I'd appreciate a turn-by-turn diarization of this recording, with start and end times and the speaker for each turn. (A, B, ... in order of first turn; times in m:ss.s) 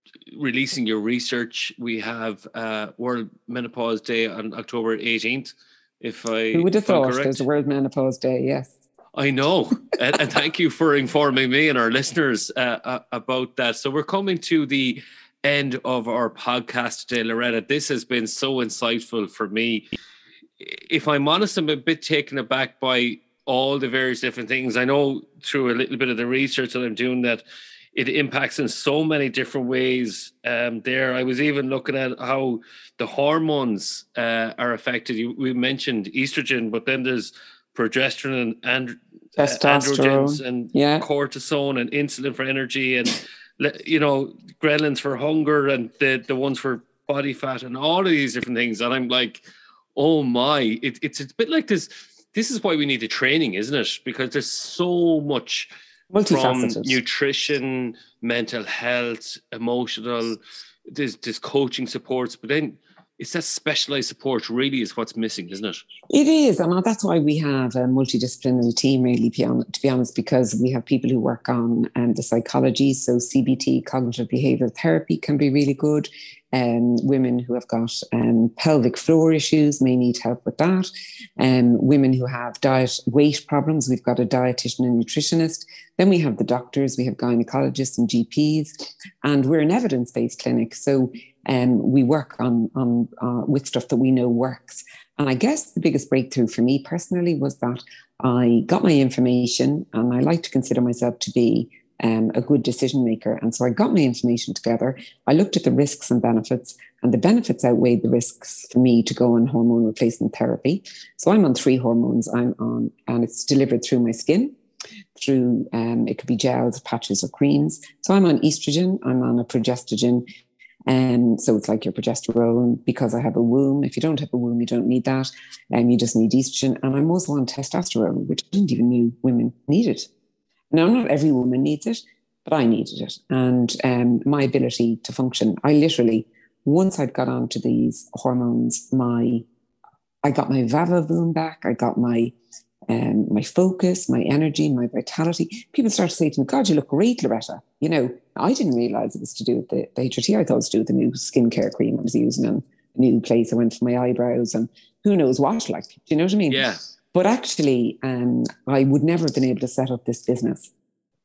0:00.3-0:07.4 A
0:06.5-0:08.8 B
0:09.1-0:19.9 A
0:20.6-0:27.4 A
0:27.9-0:49.4 A
0:39.4-0:41.0 B
0:49.9-0:55.7 A
0:56.1-0:57.0 B
0:56.2-1:05.8 A
1:06.1-1:54.5 B
1:55.2-2:00.2 B
2:00.9-2:10.1 B
2:10.7-2:19.4 B
2:20.2-2:22.3 B
2:22.9-2:40.7 B
2:36.5-2:36.8 A